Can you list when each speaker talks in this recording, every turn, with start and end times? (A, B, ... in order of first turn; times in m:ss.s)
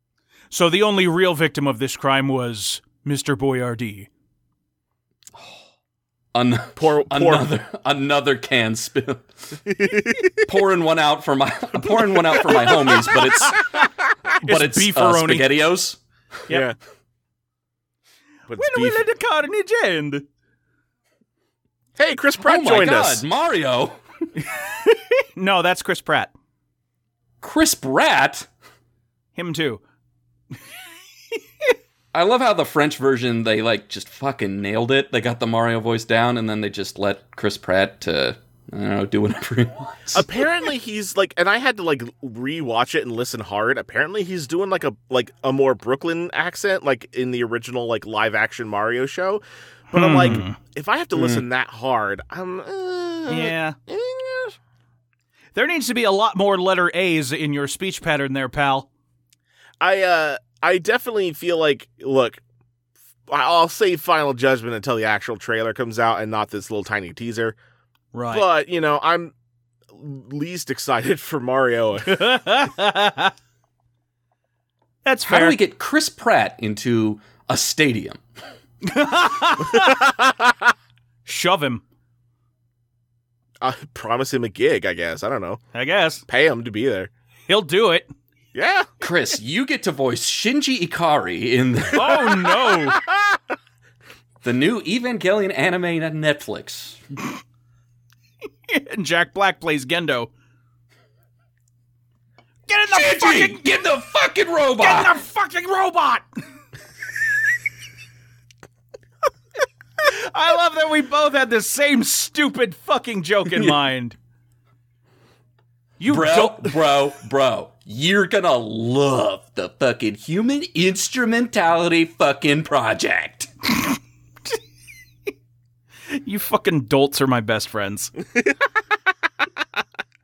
0:00.5-0:04.1 A
0:05.4-0:05.6 B
0:06.3-0:09.3 B
0:06.8-0:07.5 C
0:09.6-0:10.4 C
0:10.4-0:16.0 B
0:12.4-0:13.8 A
0:14.4-0:15.5 A
0:16.5-0:16.8 C
0:18.5-0:19.0 C
0:18.5-0:20.3 A
0:22.0-0:23.3 C
0:22.4-0:24.0 B
0:24.4-0:26.3 A
0:27.4-0:28.5 B
0:29.4-0:29.8 A
0:32.1-0:40.3 B
0:40.1-0:54.6 C
0:49.9-0:50.6 A
0:51.1-0:51.4 B
0:53.3-0:53.8 A
0:55.6-0:58.9 A
0:59.8-1:02.4 C
1:03.3-1:07.6 C
1:08.1-1:08.4 A
1:08.3-1:09.3 C
1:09.9-1:12.4 C
1:12.1-1:13.3 A
1:15.0-1:15.6 A
1:15.3-1:18.2 B
1:18.8-1:20.0 A
1:19.7-1:20.7 C
1:21.2-1:21.8 A
1:23.6-1:25.6 C
1:25.7-1:26.2 A
1:26.3-1:27.1 C
1:27.5-1:28.1 A
1:28.6-1:28.9 C
1:29.0-1:32.5 B
1:31.9-1:33.0 A
1:32.5-1:33.4 C
1:34.4-1:37.0 B
1:38.7-1:40.3 A
1:42.7-1:43.6 A
1:42.9-1:45.2 B
1:44.8-1:46.2 A
1:50.0-1:54.2 A
1:56.0-1:56.8 A
1:56.1-2:03.5 B
2:06.1-2:08.1 A